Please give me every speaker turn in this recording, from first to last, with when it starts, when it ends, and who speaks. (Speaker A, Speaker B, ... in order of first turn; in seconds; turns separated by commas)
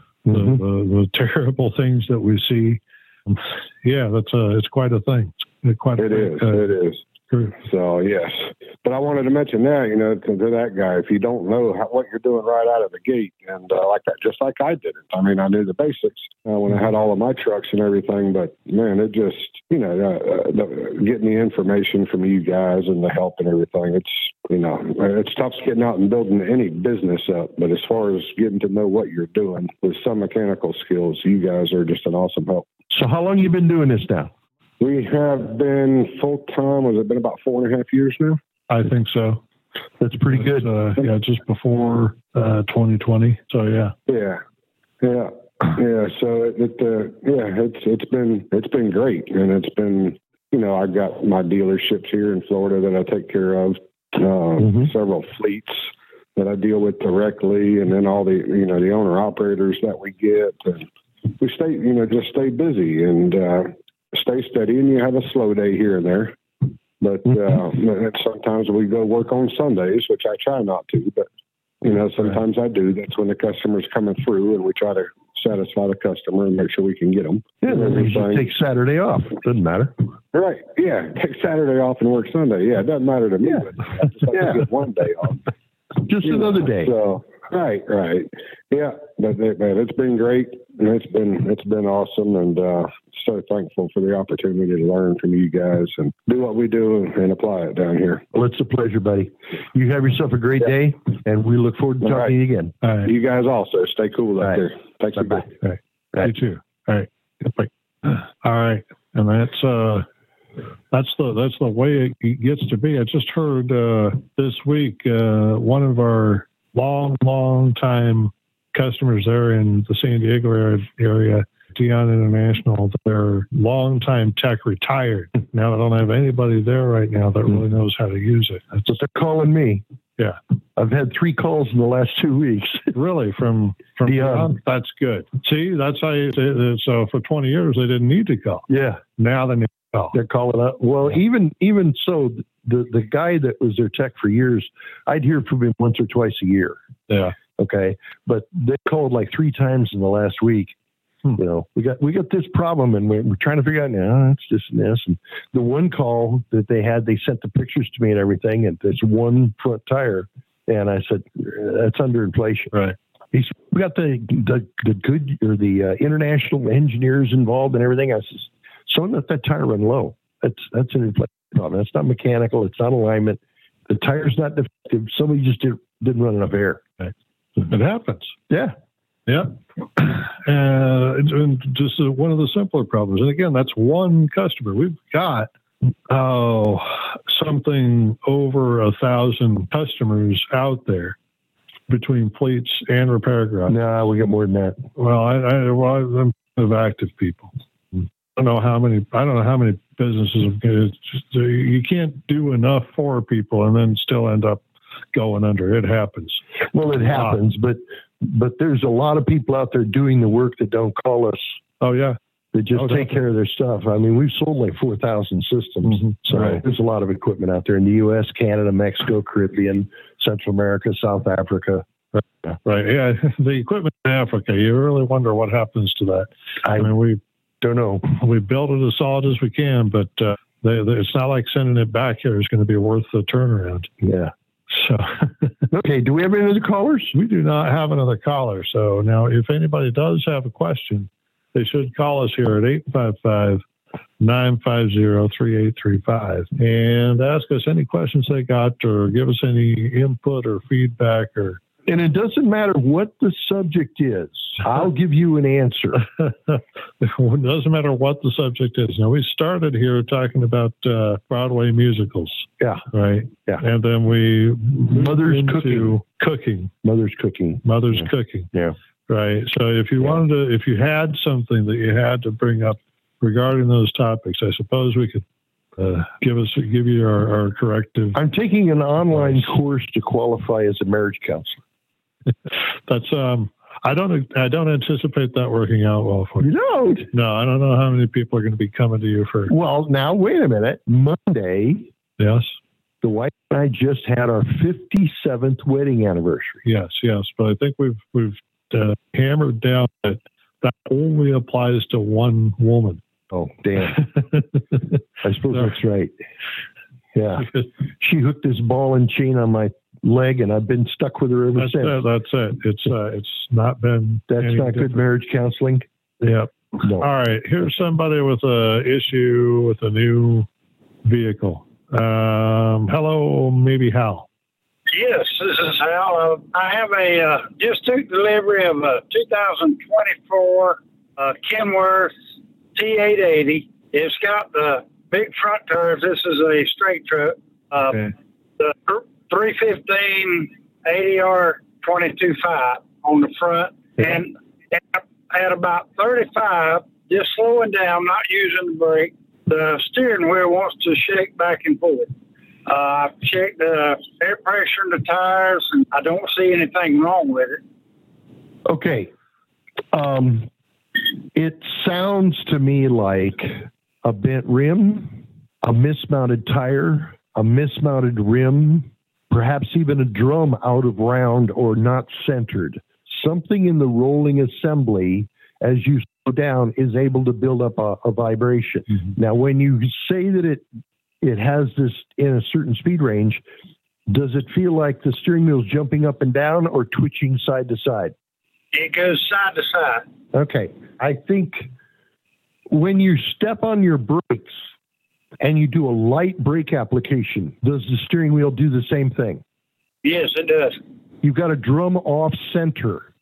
Speaker A: 0.2-0.6, Speaker B: 0.3-6.7, Speaker C: 6.0-7.0, Speaker B: 7.3-7.6, Speaker C: 7.6-32.6, Speaker A: 32.9-34.3, Speaker C: 34.8-38.4, Speaker B: 38.7-39.4, Speaker A: 40.0-40.7, Speaker B: 40.3-43.9, Speaker C: 44.1-44.4, Speaker C: 45.0-60.9, Speaker A: 54.6-54.9, Speaker C: 61.4-66.4, Speaker C: 67.0-71.2, Speaker C: 71.8-78.5, Speaker A: 77.6-80.0, Speaker C: 80.3-85.4, Speaker A: 84.3-84.6, Speaker A: 86.0-86.9, Speaker C: 86.2-98.2, Speaker A: 98.3-102.7, Speaker C: 102.0-102.3, Speaker B: 102.8-103.1, Speaker C: 103.0-105.5, Speaker A: 105.1-105.5, Speaker B: 105.6-110.1, Speaker B: 110.9-128.9, Speaker A: 128.9-129.8, Speaker A: 130.8-132.9, Speaker B: 132.9-140.2, Speaker A: 134.1-134.5, Speaker A: 138.7-139.0, Speaker A: 140.1-146.8, Speaker B: 147.1-147.3, Speaker A: 147.6-150.7, Speaker A: 151.4-162.7, Speaker A: 163.3-176.8, Speaker B: 177.0-178.4, Speaker A: 178.5-178.7, Speaker B: 179.3-185.5, Speaker B: 186.1-191.2, Speaker B: 191.9-193.8, Speaker A: 193.7-194.8, Speaker B: 194.9-204.6, Speaker B: 205.1-206.4, Speaker A: 206.7-211.6, Speaker B: 207.1-207.4, Speaker B: 211.8-212.2, Speaker A: 212.5-221.9, Speaker B: 212.7-213.1, Speaker B: 215.9-216.6, Speaker B: 222.2-227.2, Speaker A: 226.6-226.9, Speaker A: 227.6-228.0, Speaker B: 228.0-233.9, Speaker A: 234.0-234.3, Speaker B: 234.7-235.6, Speaker A: 235.7-237.1, Speaker B: 237.1-243.6, Speaker B: 244.2-251.6, Speaker A: 251.9-256.0, Speaker B: 256.2-266.7, Speaker A: 262.6-262.9, Speaker A: 264.9-266.0, Speaker A: 266.8-268.8, Speaker B: 267.6-268.5, Speaker B: 269.1-275.2, Speaker B: 275.8-278.2, Speaker A: 278.1-281.6, Speaker B: 282.5-286.5, Speaker A: 286.4-287.1, Speaker B: 287.1-289.5, Speaker A: 289.5-291.9, Speaker B: 292.2-292.5, Speaker A: 293.0-296.6, Speaker B: 296.6-303.0, Speaker A: 303.3-304.1, Speaker B: 304.1-304.6, Speaker A: 305.2-306.1, Speaker A: 307.1-312.0, Speaker B: 311.6-315.0, Speaker A: 314.3-315.9, Speaker B: 316.2-320.5, Speaker A: 316.8-317.1, Speaker B: 321.0-324.3, Speaker D: 324.9-332.1, Speaker D: 332.7-352.1, Speaker D: 352.6-357.6, Speaker A: 358.6-359.1, Speaker A: 359.9-360.5, Speaker A: 361.3-380.6, Speaker A: 381.2-383.4, Speaker A: 384.1-388.1, Speaker D: 388.7-390.0, Speaker A: 390.3-391.7, Speaker A: 392.7-394.6, Speaker A: 395.4-399.4, Speaker D: 400.0-400.8, Speaker A: 401.2-403.1